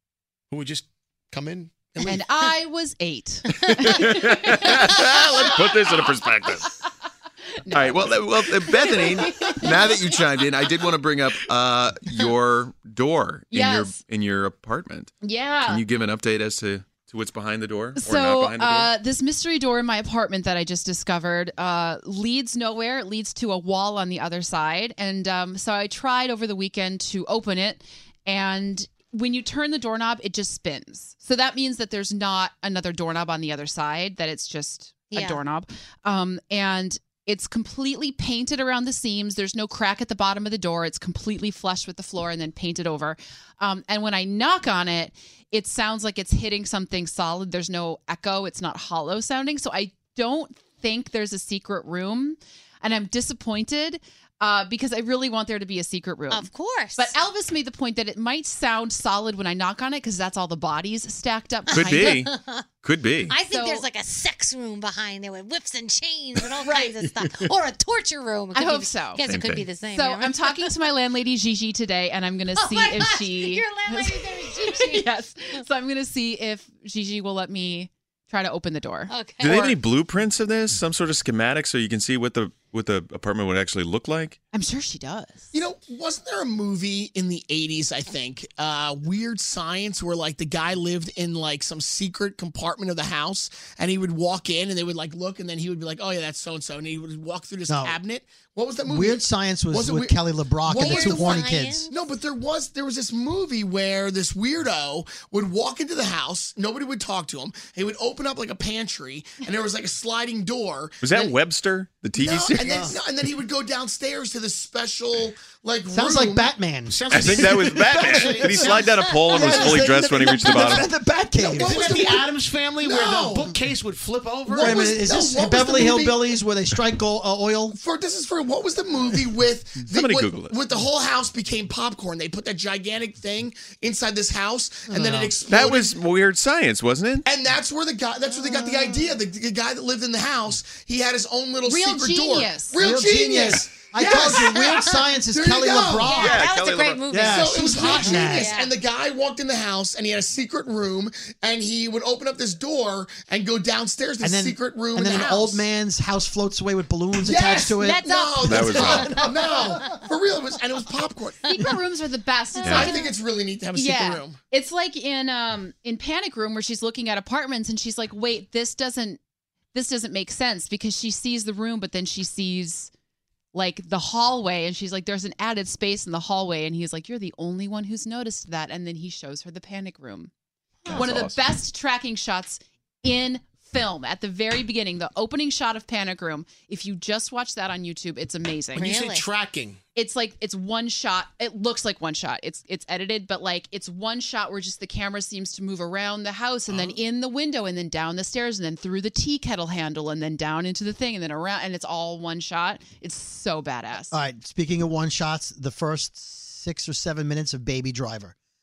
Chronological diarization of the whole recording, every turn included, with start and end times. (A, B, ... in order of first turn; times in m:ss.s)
0:00.5-0:02.3 A
0:02.0-0:05.7 B
0:03.5-0:06.7 C
0:07.6-0:10.0 B
0:07.7-0:15.1 C
0:13.5-0:14.0 B
0:15.2-0:15.8 B
0:15.6-0:18.9 C
0:17.9-1:02.1 B
0:35.1-0:35.4 D
0:56.3-0:57.1 D
1:01.7-1:02.6 D
1:01.7-1:03.4 C
1:03.3-1:10.7 D
1:03.5-1:03.9 B
1:06.7-1:06.9 B
1:08.5-1:09.2 B
1:09.2-1:09.7 C
1:09.9-1:19.8 B
1:12.6-1:15.1 D
1:19.1-1:19.5 D
1:19.4-1:24.4 C
1:24.5-1:25.5 B
1:25.5-1:51.3 E
1:37.7-1:38.0 F
1:38.8-1:41.9 F
1:40.7-1:42.0 D
1:51.0-1:52.9 C
1:52.2-1:56.5 E
1:52.6-1:53.0 F
1:55.9-2:02.2 F
1:56.8-1:58.6 A
1:57.1-2:00.9 C
2:01.4-2:05.0 A
2:01.6-2:02.2 E
2:02.8-2:03.5 E
2:04.5-2:06.3 E
2:04.5-2:07.8 F
2:07.7-2:15.9 E
2:09.8-2:10.6 C
2:14.9-2:15.3 F
2:15.4-2:17.3 C
2:17.2-2:26.2 E
2:18.3-2:19.0 D
2:21.7-2:22.8 B
2:22.7-2:26.4 F
2:24.3-2:25.1 D
2:26.0-2:28.8 D
2:26.1-2:27.2 C
2:27.1-2:28.6 F
2:27.3-2:35.6 E
2:34.2-2:39.3 F
2:37.2-2:41.5 E
2:37.7-2:39.6 D
2:38.4-2:39.2 C
2:41.4-2:43.1 B
2:42.6-2:43.1 D
2:42.6-2:43.0 C
2:42.8-2:44.4 E
2:43.7-2:49.2 B
2:49.7-2:52.9 B
2:53.5-3:00.3 B
3:00.8-3:01.1 D
3:00.8-3:01.4 C
3:00.9-3:08.9 B
3:08.7-3:09.8 A
3:08.8-3:09.2 D
3:09.9-3:24.1 B
3:16.7-3:17.0 A
3:24.1-3:28.3 F